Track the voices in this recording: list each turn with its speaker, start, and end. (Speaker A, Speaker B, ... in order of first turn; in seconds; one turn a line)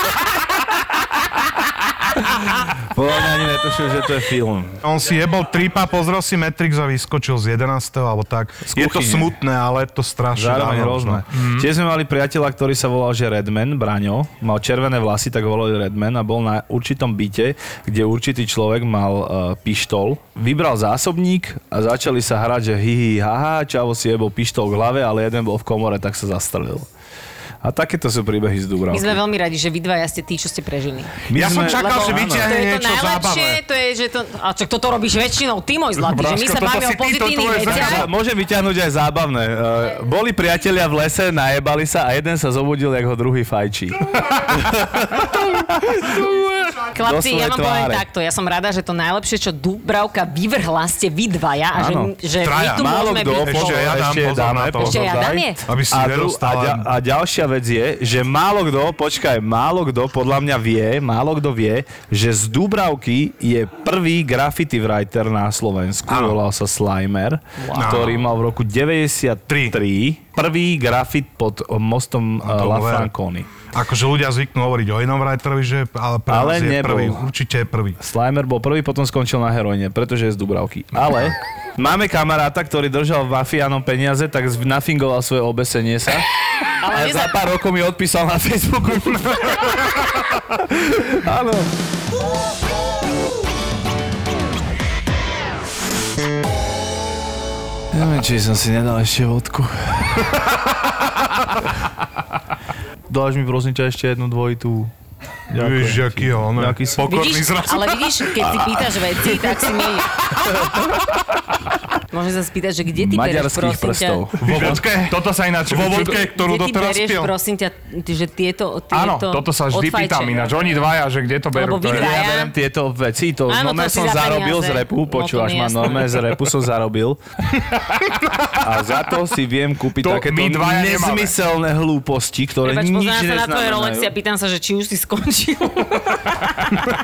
Speaker A: 2.3-4.8
Speaker B: 4.8-11.2
Speaker A: 8.7-9.3
Speaker A: 10.3-26.9
Speaker C: 11.3-11.7
Speaker A: 27.6-29.2
Speaker D: 28.9-38.1
Speaker A: 31.3-32.5
Speaker B: 31.3-33.6
Speaker C: 36.0-38.1
Speaker A: 37.6-48.0
Speaker D: 46.9-54.0
Speaker A: 51.7-73.5
Speaker B: 52.4-55.1
Speaker D: 54.8-55.6
Speaker B: 55.7-56.9
Speaker B: 66.1-66.4
Speaker D: 67.6-68.2
Speaker B: 67.8-68.2
Speaker B: 69.5-69.8
Speaker B: 72.4-73.1
Speaker B: 73.7-78.0
Speaker A: 76.3-77.3
Speaker A: 78.0-86.3
Speaker D: 86.8-87.3
Speaker A: 86.9-89.9
Speaker A: 90.6-91.7
Speaker A: 97.9-100.4
Speaker A: 103.1-104.9
Speaker A: 105.5-107.1
Speaker B: 105.6-108.8
Speaker D: 107.0-110.1
Speaker D: 112.1-114.2
Speaker A: 112.9-114.8
Speaker B: 114.4-117.3
Speaker C: 114.4-116.3
Speaker D: 116.3-120.6
Speaker C: 118.9-122.1
Speaker D: 121.5-122.5
Speaker A: 121.8-127.2
Speaker D: 123.5-126.3
Speaker C: 127.9-128.2
Speaker A: 128.6-134.1
Speaker C: 130.0-131.4
Speaker D: 132.6-136.8